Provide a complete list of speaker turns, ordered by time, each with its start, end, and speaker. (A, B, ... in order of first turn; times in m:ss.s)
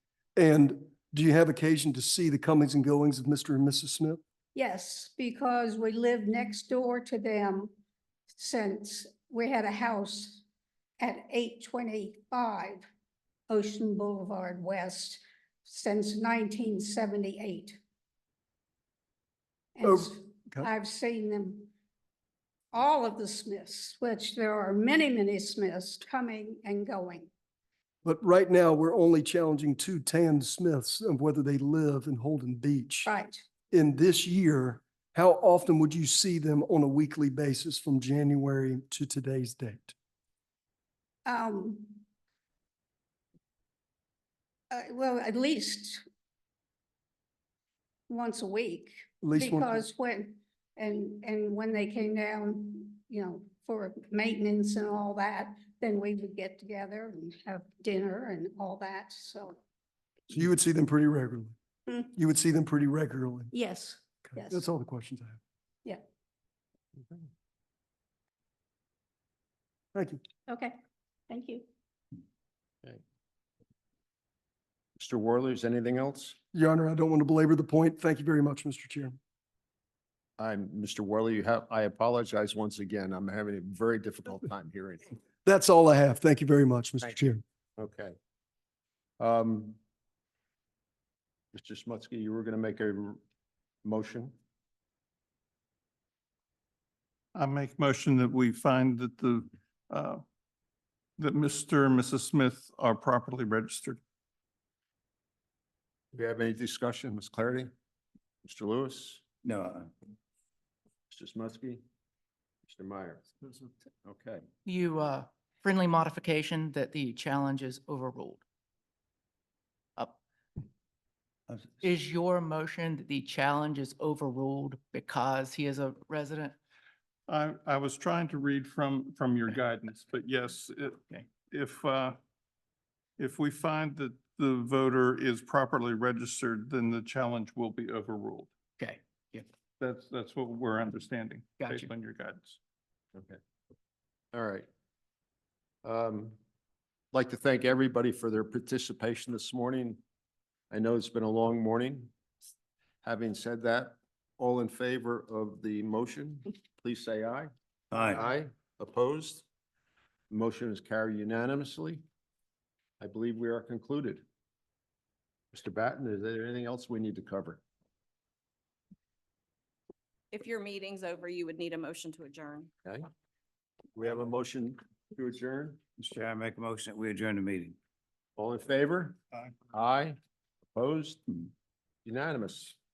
0:00.4-0:04.2 A
0:04.5-0:07.7 B
0:08.3-0:10.4 B
0:11.0-0:12.8 B
0:13.5-0:17.8 B
0:19.8-0:21.7 B
0:19.8-0:20.7 A
0:22.7-0:27.3 B
0:28.0-0:33.1 A
0:33.0-0:33.4 B
0:33.7-0:39.9 A
0:41.2-0:42.0 B
0:44.7-0:46.0 B
0:48.1-0:59.6 B
0:49.2-0:49.8 A
1:00.3-1:01.5 A
1:02.1-1:03.5 A
1:03.6-1:04.6 B
1:04.2-1:05.4 A
1:09.9-1:10.2 A
1:11.3-1:11.6 B
1:15.0-1:16.4 C
1:16.5-1:19.2 A
1:20.4-1:25.2 C
1:25.4-1:27.4 A
1:27.8-1:28.2 C
1:29.2-1:29.8 C
1:31.5-1:33.2 C
1:33.8-1:34.3 C
1:37.3-1:40.2 D
1:41.2-1:44.0 D
1:46.1-1:47.7 C
1:48.4-1:49.2 C
1:49.4-1:49.9 E
1:51.1-1:51.8 C
1:52.6-1:53.5 C
1:54.0-1:54.4 C
1:54.6-1:58.4 F
2:01.8-2:06.6 F
2:07.3-2:12.2 D
2:13.2-2:18.5 D
2:18.8-2:19.4 F
2:19.8-2:22.6 D
2:21.6-2:21.9 F
2:24.3-2:24.6 C
2:25.8-2:26.4 C
2:27.1-2:30.0 C
2:30.7-2:32.1 C
2:33.0-2:39.4 C
2:37.9-2:38.2 E
2:40.3-2:42.0 C
2:43.0-2:44.2 C
2:45.5-2:47.6 C
2:50.3-2:52.7 G
2:53.9-2:55.8 C
2:56.0-2:57.8 E
2:58.4-2:59.2 C
2:59.7-3:00.2 C
3:00.7-3:01.4 C
3:02.0-3:02.8 C